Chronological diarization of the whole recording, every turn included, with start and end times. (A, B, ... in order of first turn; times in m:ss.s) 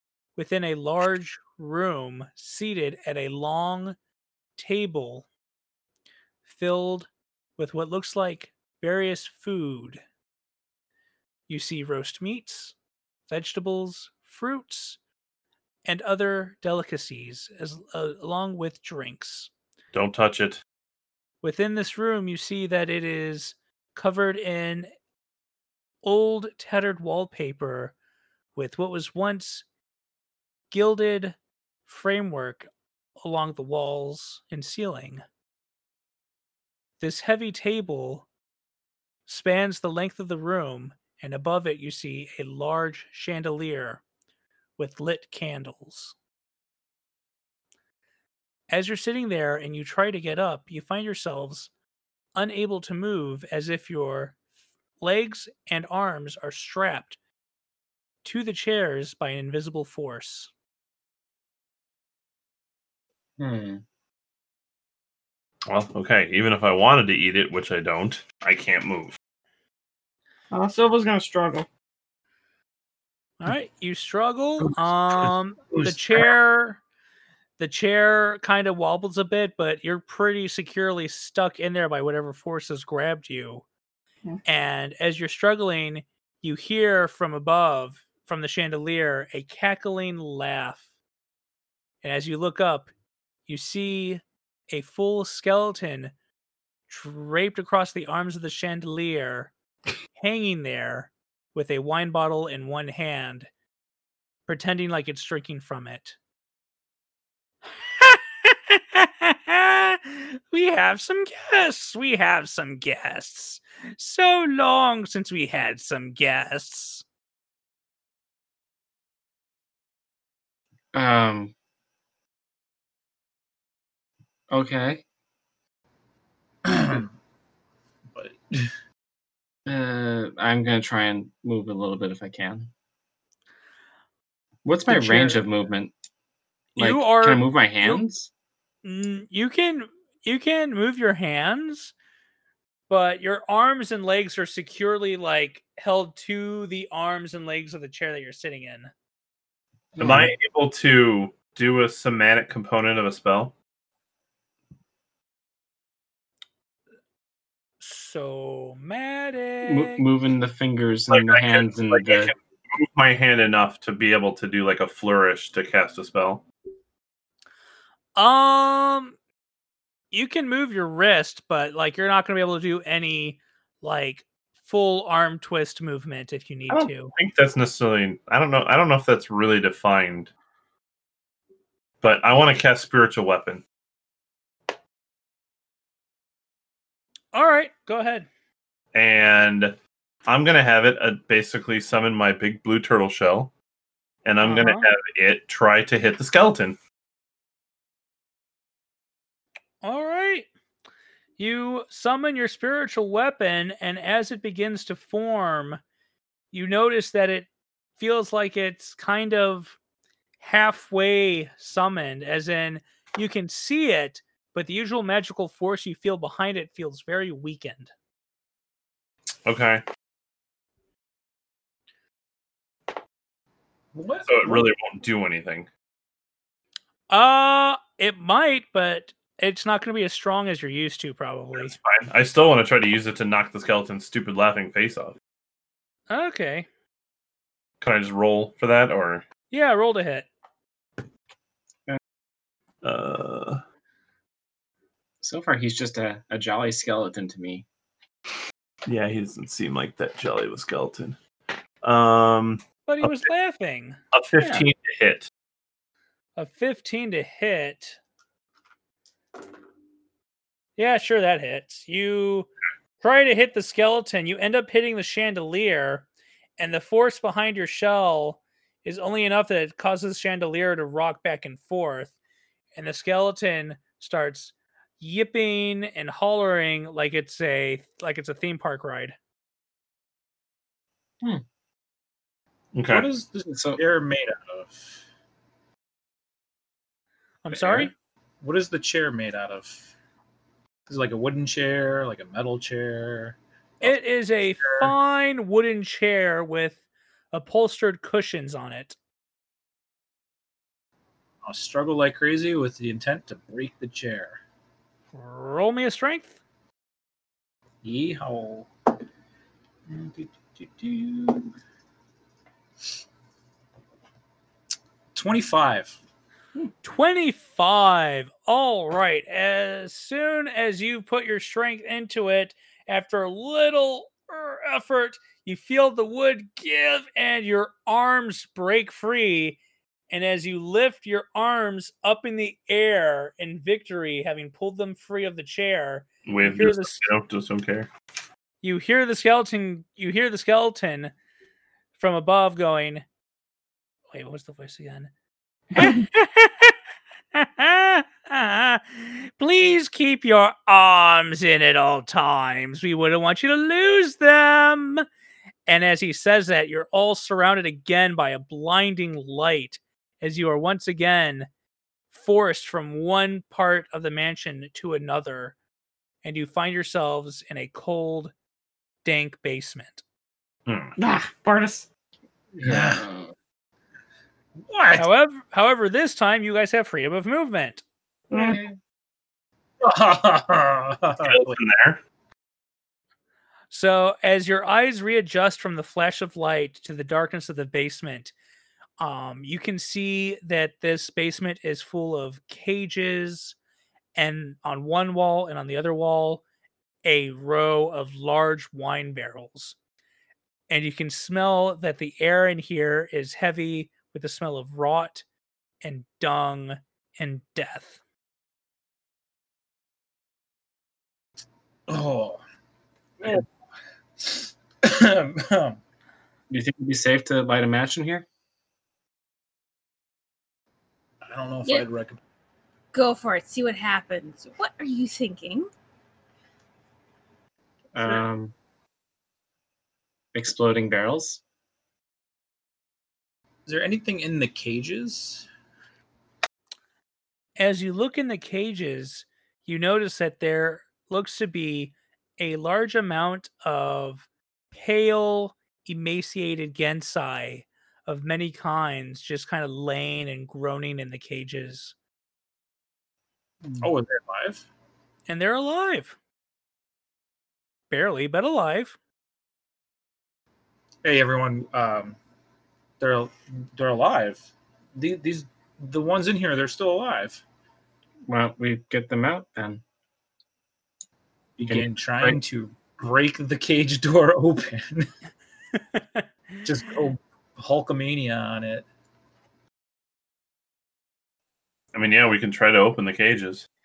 0:00.4-0:04.0 A
0:04.6-0:05.2 A
0:06.4-0:10.0 A
0:11.5-0:12.7 A
0:13.3-0:15.0 A
0:15.8-0:19.5 A
0:19.9-0:20.6 B
0:21.4-0:24.9 A
0:26.0-0:27.9 A
0:28.5-0:29.6 A
0:30.7-0:32.7 A
0:33.2-0:35.2 A
0:37.0-0:38.3 A
0:39.3-0:44.0 A
0:44.8-0:46.1 A
0:48.7-0:51.7 A
0:52.4-0:54.4 A
0:55.0-0:57.2 A
0:58.2-1:00.5 A
1:03.4-1:03.8 C
1:05.7-1:09.2 B
1:10.5-1:11.7 D
1:13.4-1:16.8 A
1:17.6-1:23.6 A
1:24.4-1:30.8 A
1:32.0-1:32.9 A
1:33.5-1:36.1 A
1:36.9-1:39.5 A
1:40.1-1:43.5 A
1:44.5-1:46.2 A
1:47.8-1:57.0 A
2:00.9-2:01.5 C
2:04.5-2:05.0 C
2:06.6-2:07.1 E
2:08.1-2:08.7 E
2:09.6-2:12.7 C
2:14.6-2:15.9 C
2:14.9-2:15.4 E
2:16.8-2:18.3 C
2:16.8-2:18.0 A
2:18.8-2:21.9 A
2:22.9-2:28.9 A
2:30.0-2:30.3 C
2:30.0-2:33.5 B
2:37.8-2:40.0 A
2:39.6-2:42.3 C
2:41.1-2:46.4 B
2:48.2-2:49.2 A
2:50.1-2:57.1 A
2:56.7-3:00.3 B
3:02.0-3:03.6 B
3:07.3-3:08.3 A
3:08.9-3:09.8 B
3:10.3-3:13.5 B
3:14.2-3:16.8 B
3:14.4-3:14.9 A
3:19.8-3:20.5 A
3:21.4-3:25.8 A
3:26.5-3:29.8 A
3:30.4-3:37.9 A
3:39.4-3:39.8 B
3:43.9-3:44.7 E
3:44.2-3:45.7 B
3:47.1-3:51.7 A
3:51.5-3:55.2 B
3:56.1-3:56.7 A
3:57.8-3:59.2 B
3:59.5-4:00.3 A
4:02.8-4:03.6 B
4:05.2-4:07.6 C
4:08.9-4:11.2 B
4:11.8-4:13.2 B
4:12.8-4:14.0 A
4:14.1-4:15.3 B
4:14.4-4:14.7 C
4:16.4-4:18.0 A
4:20.8-4:22.5 A
4:23.0-4:26.0 A
4:26.6-4:32.1 A
4:32.8-4:39.2 A
4:42.7-4:43.1 B
4:42.9-4:45.0 E
4:43.5-4:43.8 C
4:47.4-4:47.9 A
4:47.6-4:47.9 C
4:48.4-4:49.9 E
4:50.9-4:54.0 E
4:53.8-4:56.8 A
4:54.6-4:54.9 E
4:57.3-4:59.0 A
5:01.4-5:04.4 E
5:05.1-5:06.4 A
5:07.8-5:08.7 E
5:09.9-5:11.5 E
5:15.1-5:16.0 E
5:16.8-5:29.6 A
5:30.1-5:37.0 A
5:36.2-5:37.9 B
5:38.6-5:41.1 A
5:42.0-5:43.0 A
5:44.1-5:45.1 A
5:45.7-5:46.8 A
5:47.3-5:55.0 A
5:55.7-6:01.5 A
6:02.1-6:05.6 A
6:06.2-6:08.3 A
6:09.0-6:10.0 A
6:10.7-6:10.9 B
6:11.0-6:11.8 D
6:12.5-6:13.3 C
6:12.6-6:13.0 E
6:14.7-6:15.1 E
6:15.0-6:17.8 A
6:18.3-6:18.8 C
6:18.3-6:18.6 D
6:19.8-6:21.6 E
6:21.2-6:22.0 B
6:23.7-6:28.3 A
6:29.0-6:33.6 A
6:34.2-6:36.4 A
6:37.0-6:39.8 A
6:40.7-6:45.2 A
6:45.8-6:48.0 A
6:51.9-6:52.4 E
6:54.2-6:55.8 E
6:56.5-6:58.2 C
7:01.2-7:02.2 E
7:02.9-7:05.7 F
7:07.9-7:08.5 C
7:08.0-7:08.2 E
7:10.3-7:11.4 C
7:13.6-7:15.5 E
7:17.6-7:31.9 A
7:33.8-7:34.7 E
7:35.3-7:36.2 A
7:37.9-7:39.0 A
7:41.0-7:42.2 E
7:43.0-7:47.4 E
7:48.3-7:49.8 C
7:51.6-7:55.1 E
7:51.7-7:52.4 C
7:55.9-7:56.2 A
7:56.6-7:58.8 E
8:01.9-8:03.7 B